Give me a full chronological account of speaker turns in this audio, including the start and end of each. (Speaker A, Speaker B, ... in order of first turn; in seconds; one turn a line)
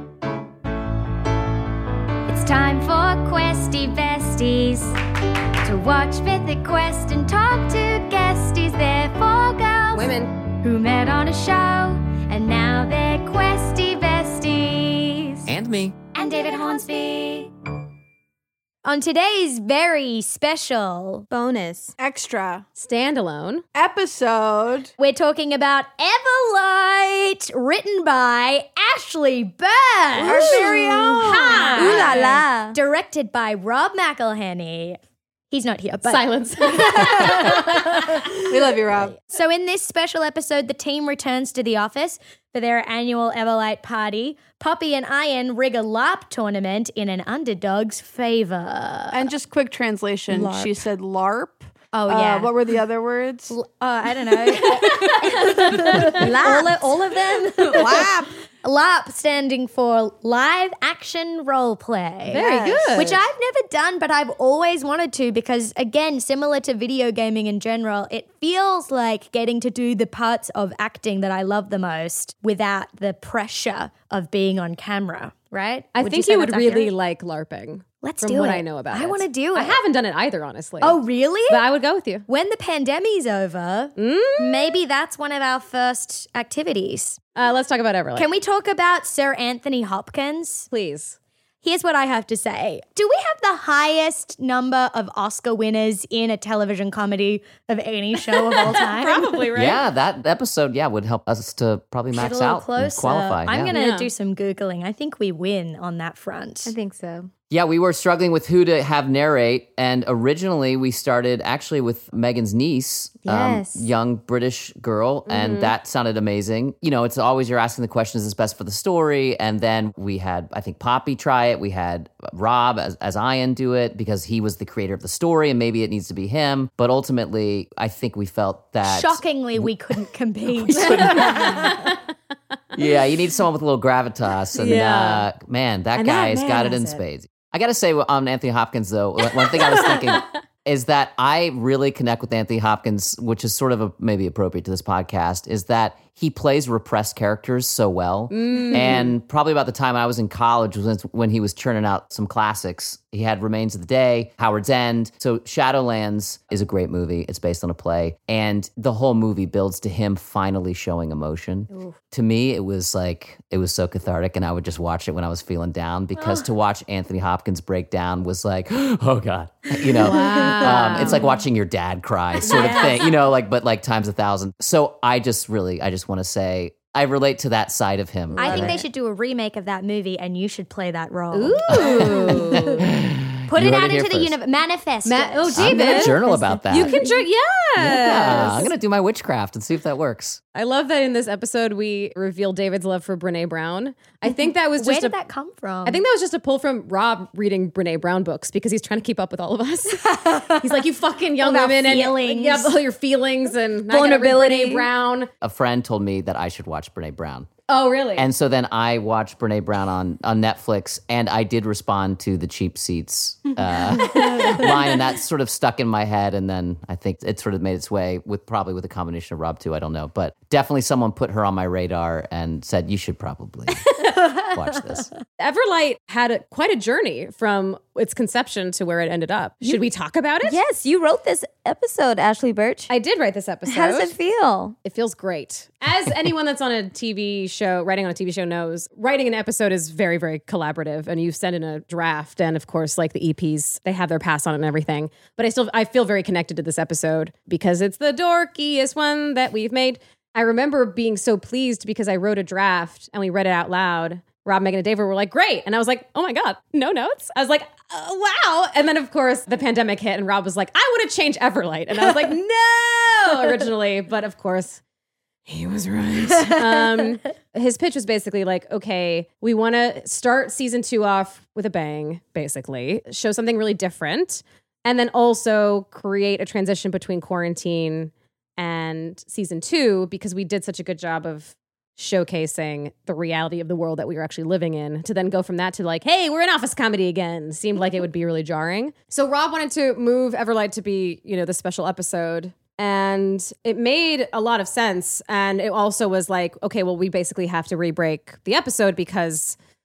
Speaker A: 2.3-5.0
Speaker A: 5.6-15.5
Speaker B: 9.9-10.4
Speaker C: 15.4-16.0
Speaker A: 16.1-17.5
Speaker A: 18.9-21.3
Speaker D: 21.3-21.9
Speaker E: 22.0-22.7
Speaker B: 22.8-23.6
Speaker E: 23.8-24.9
Speaker A: 25.0-35.0
Speaker B: 30.2-32.4
Speaker E: 30.2-31.9
Speaker D: 31.7-32.8
Speaker A: 35.5-38.4
Speaker B: 36.0-37.9
Speaker E: 38.5-39.2
Speaker A: 39.2-49.3
Speaker E: 49.1-53.6
Speaker D: 50.3-50.8
Speaker A: 51.9-52.5
Speaker A: 53.5-58.1
Speaker B: 54.5-56.3
Speaker D: 56.0-56.9
Speaker E: 57.6-58.3
Speaker A: 58.6-76.9
Speaker B: 62.3-63.2
Speaker E: 62.3-63.2
Speaker B: 76.0-82.3
Speaker A: 78.0-79.8
Speaker A: 80.8-81.6
Speaker A: 82.3-87.2
Speaker B: 84.0-84.8
Speaker B: 87.4-88.3
Speaker A: 88.2-90.7
Speaker B: 90.7-91.2
Speaker A: 91.6-99.5
Speaker B: 98.5-99.8
Speaker C: 99.5-103.8
Speaker A: 102.1-106.7
Speaker B: 103.7-104.1
Speaker D: 106.7-107.3
Speaker C: 107.5-129.7
Speaker D: 113.2-113.9
Speaker B: 115.3-115.7
Speaker A: 128.8-131.8
Speaker C: 130.5-131.7
Speaker B: 130.9-132.0
Speaker C: 132.7-178.8
Speaker B: 134.6-135.3
Speaker B: 135.9-137.0
Speaker B: 139.2-140.3
Speaker B: 148.3-149.1
Speaker B: 170.0-171.3
Speaker B: 172.4-172.9
Speaker A: 172.5-172.9
Speaker D: 178.3-178.8
Speaker A: 178.4-182.8
Speaker B: 181.3-182.8
Speaker C: 181.7-184.4
Speaker A: 183.5-186.4
Speaker B: 185.0-188.7
Speaker C: 185.5-187.0
Speaker C: 187.8-190.4
Speaker B: 190.5-195.2
Speaker A: 194.8-196.0
Speaker B: 195.8-205.3
Speaker A: 200.0-200.8
Speaker A: 201.4-202.8
Speaker D: 203.9-204.9
Speaker C: 205.4-207.5
Speaker B: 207.7-208.3
Speaker C: 208.2-225.1
Speaker B: 223.9-224.3
Speaker B: 225.4-230.6
Speaker D: 230.4-232.9
Speaker B: 232.9-234.1
Speaker D: 233.7-234.8
Speaker B: 234.8-264.8
Speaker B: 265.5-299.6